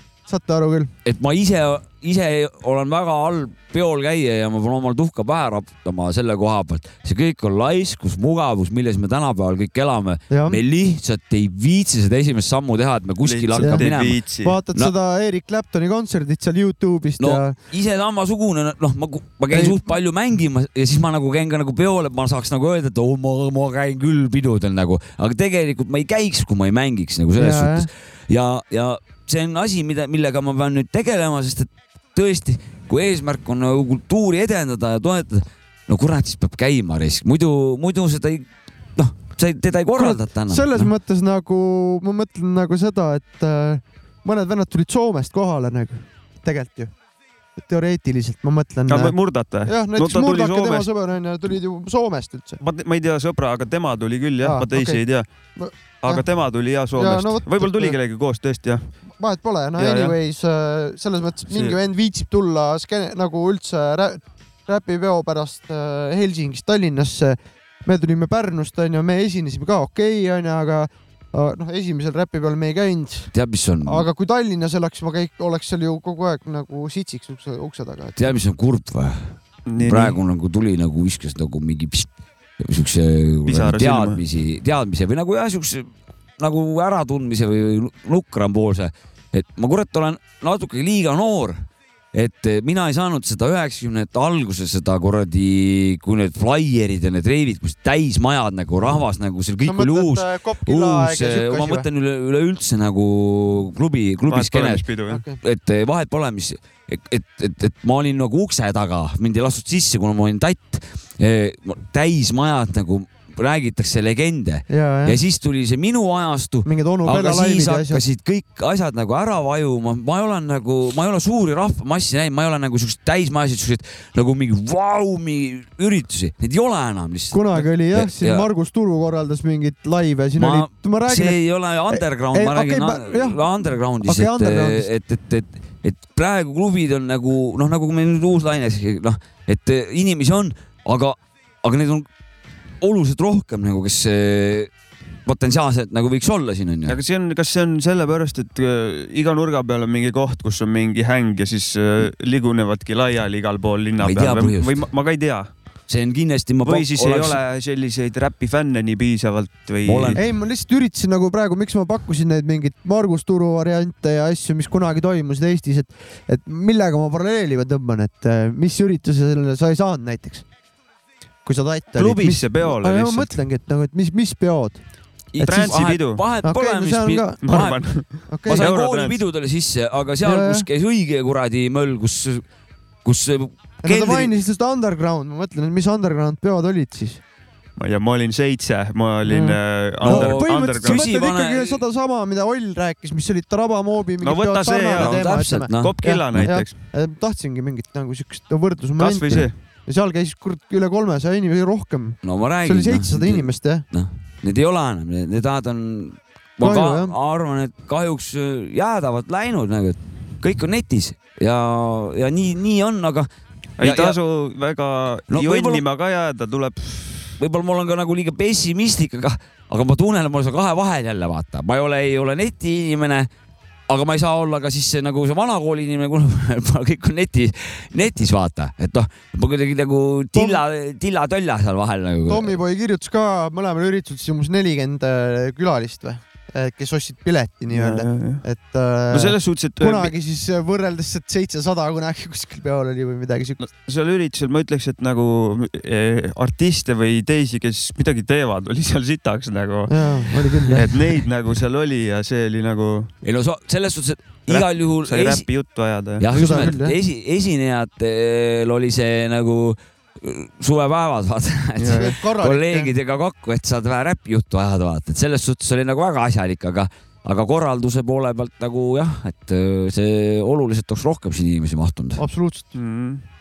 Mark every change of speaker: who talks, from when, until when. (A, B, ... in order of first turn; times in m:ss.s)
0:00.2-0:00.9 A
0:01.0-0:14.2 B
0:10.3-0:10.6 A
0:13.2-0:14.6 C
0:13.6-0:13.8 A
0:14.4-0:17.6 A
0:17.2-0:40.9 B
0:19.5-0:19.8 A
0:27.4-0:27.9 A
0:39.9-0:46.9 A
0:47.6-0:49.1 A
0:48.9-0:50.9 C
0:49.6-0:52.6 A
0:52.6-0:55.2 C
0:54.4-0:55.0 A
0:55.6-0:56.2 A
0:56.0-0:58.8 C
0:57.0-0:58.0 A
0:59.2-1:13.3 A
0:59.8-1:00.2 C
1:01.5-1:01.8 C
1:13.3-1:14.1 B
1:13.8-1:18.3 A
1:18.2-1:19.3 B
1:19.7-1:20.2 C
1:19.8-1:44.8 B
1:23.4-1:24.2 C
1:39.6-1:41.9 A
1:44.3-1:45.2 C
1:45.1-1:45.4 A
1:45.4-2:08.5 B
1:54.7-1:55.2 A
1:56.6-1:58.0 A
2:07.3-2:13.4 A
2:10.4-2:22.1 B
2:14.0-2:14.9 A
2:22.8-2:24.7 B
2:25.2-2:27.0 B
2:26.9-2:35.5 C
2:34.0-2:34.8 B
2:35.9-2:37.4 B
2:36.6-2:40.2 C
2:39.8-2:40.2 B
2:40.2-2:50.4 A
2:51.4-2:54.8 A
2:51.9-2:53.3 C
2:55.3-2:57.8 B
2:55.4-2:56.2 C
2:56.4-2:57.7 A
2:57.4-2:59.2 C
2:58.2-2:58.7 A
2:58.4-3:02.4 B
3:00.2-3:00.6 A
3:03.0-3:04.3 B
3:03.8-3:07.2 A
3:07.8-3:11.0 C
3:09.3-3:23.8 A
3:10.0-3:11.8 B
3:14.2-3:15.2 C
3:14.9-3:16.5 B
3:15.7-3:16.7 C
3:19.0-3:19.5 C
3:22.2-3:33.3 B
3:26.6-3:27.1 A
3:33.8-3:37.3 C
3:33.8-3:34.2 B
3:35.3-3:35.8 B
3:37.4-3:43.3 B
3:43.9-3:52.6 B
3:50.3-3:50.6 A
3:52.3-4:03.6 A
3:57.7-3:58.4 C
3:59.1-4:00.1 C
4:03.6-4:13.1 C
4:09.9-4:11.0 A
4:13.2-4:15.5 B
4:14.5-4:16.7 C
4:16.2-4:32.2 B
4:16.3-4:17.0 A
4:21.8-4:22.1 C
4:21.9-4:22.9 A
4:32.2-4:32.7 A
4:32.7-4:33.2 C